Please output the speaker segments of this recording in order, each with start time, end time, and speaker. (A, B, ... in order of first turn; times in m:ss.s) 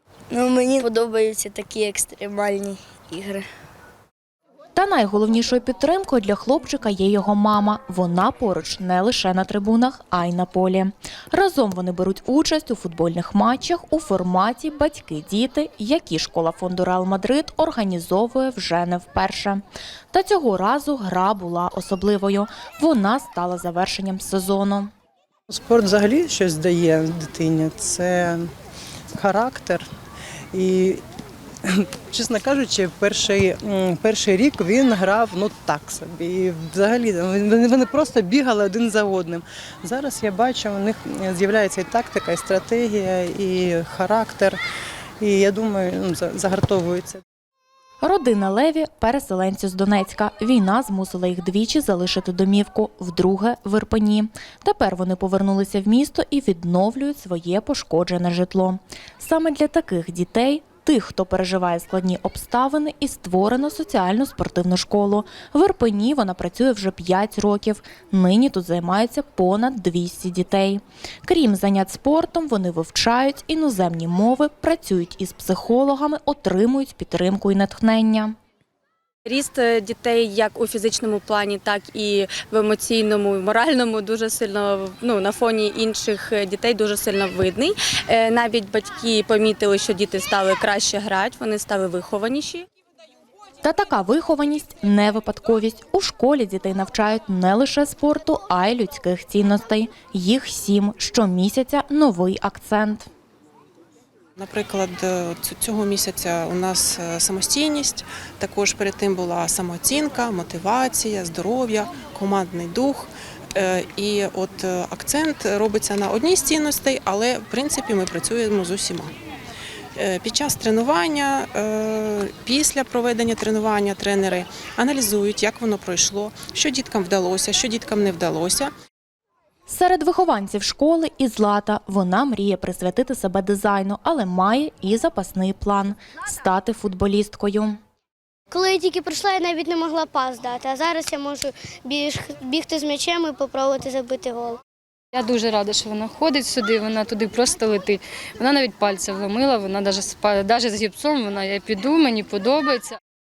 0:00.3-0:03.5 A
0:04.8-0:24.9 B
0:25.5-0:28.5 C
0:29.2-0:29.9 C
0:30.5-0:31.0 C
0:31.6-0:44.6 C
0:45.2-0:47.2 C
0:48.0-1:18.3 B
1:19.2-1:32.7 D
1:33.6-1:43.1 B
1:44.4-1:59.1 E
2:00.0-2:08.7 E
2:09.7-2:17.8 B
2:18.5-2:24.6 F
2:25.1-2:33.0 G